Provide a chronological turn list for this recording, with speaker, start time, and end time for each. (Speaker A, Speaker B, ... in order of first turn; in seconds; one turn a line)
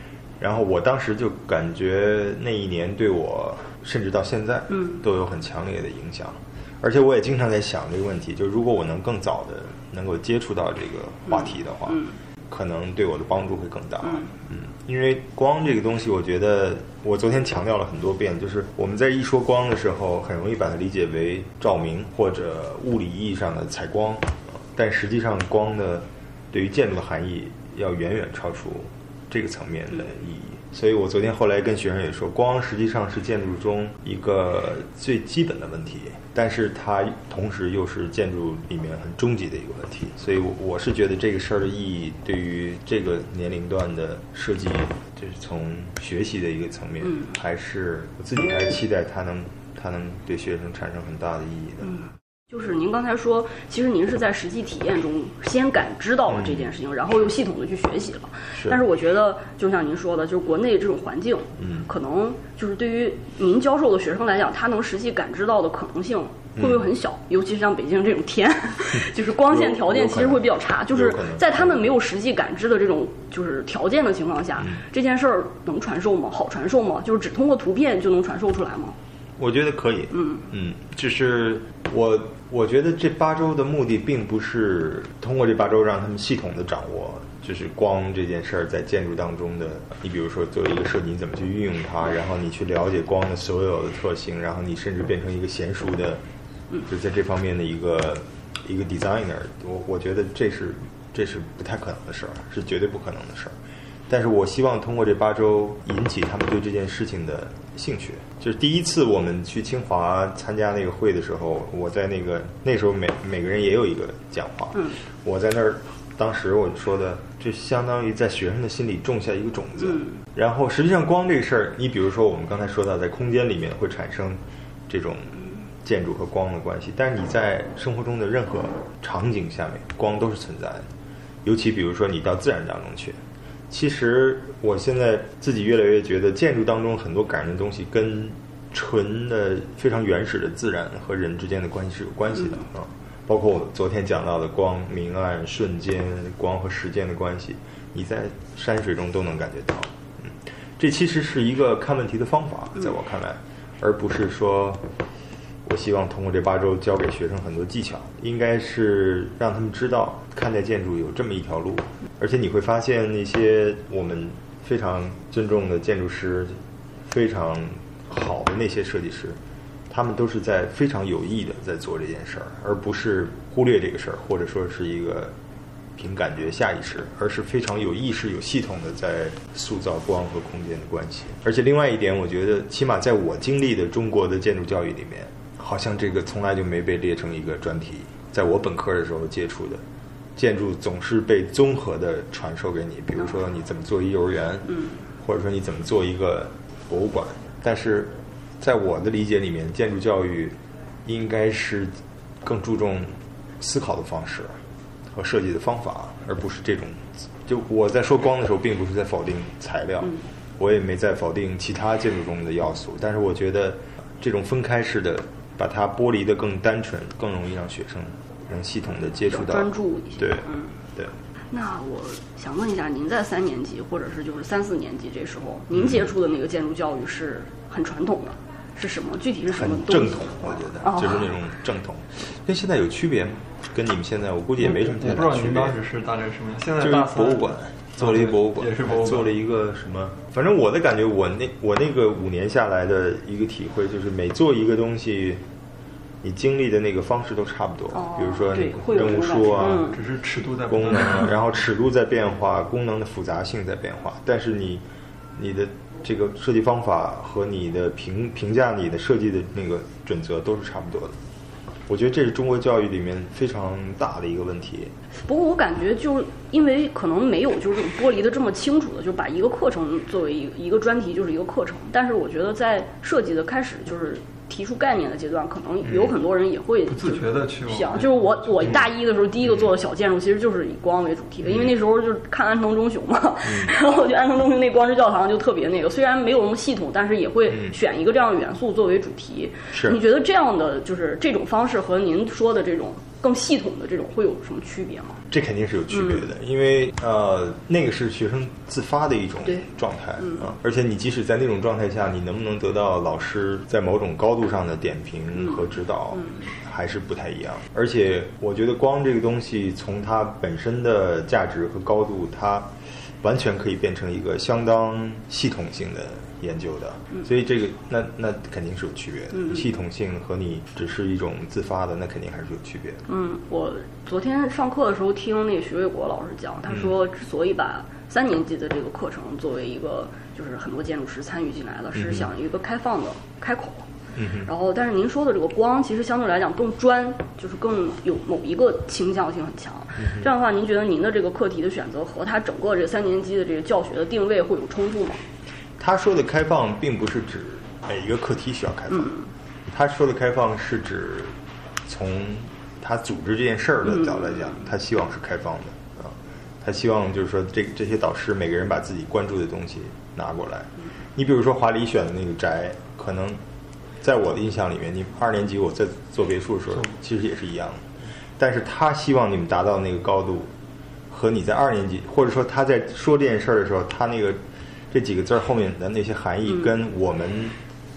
Speaker A: 0.4-51.9
Speaker B: 4.7-5.0
Speaker B: 11.3-12.1
Speaker B: 47.0-47.3
Speaker B: 51.8-79.0
Speaker A: 56.3-56.7
Speaker A: 61.6-61.9
Speaker A: 66.6-66.9
Speaker A: 69.5-71.9
Speaker A: 79.4-96.2
Speaker B: 80.1-80.5
Speaker A: 96.9-103.5
Speaker A: 104.1-130.9
Speaker B: 119.8-120.1
Speaker A: 131.4-133.2
Speaker A: 133.7-154.8
Speaker A: 155.7-166.6
Speaker A: 167.1-169.4
Speaker A: 169.9-175.3
Speaker A: 176.0-189.8
Speaker A: 190.4-201.9
Speaker A: 202.4-204.6
Speaker A: 205.1-220.4
Speaker B: 219.3-220.7
Speaker B: 221.5-231.3
Speaker A: 225.7-226.1
Speaker A: 229.5-235.8
Speaker C: 235.0-237.4
Speaker A: 236.8-245.4
Speaker C: 238.0-239.3
Speaker A: 246.2-249.9
Speaker B: 247.9-250.0
Speaker C: 249.9-251.3
Speaker A: 250.7-254.8
Speaker A: 255.4-261.1
Speaker A: 261.9-264.9
Speaker B: 265.3-295.2
Speaker A: 275.8-276.2
Speaker C: 277.0-278.8
Speaker A: 281.4-281.7
Speaker A: 283.4-283.8
Speaker A: 287.5-287.8
Speaker A: 289.7-290.0
Speaker A: 295.3-323.0
Speaker B: 295.9-296.3
Speaker B: 300.2-300.5
Speaker B: 305.3-306.5
Speaker B: 319.3-319.6
Speaker B: 323.1-333.9
Speaker A: 331.9-332.3
Speaker A: 334.1-334.5
Speaker B: 334.4-345.3
Speaker A: 339.9-340.3
Speaker A: 345.8-349.1
Speaker B: 348.9-349.3
Speaker A: 349.7-363.4
Speaker B: 353.8-354.6
Speaker A: 364.0-367.8
Speaker A: 368.4-370.5
Speaker A: 371.1-377.6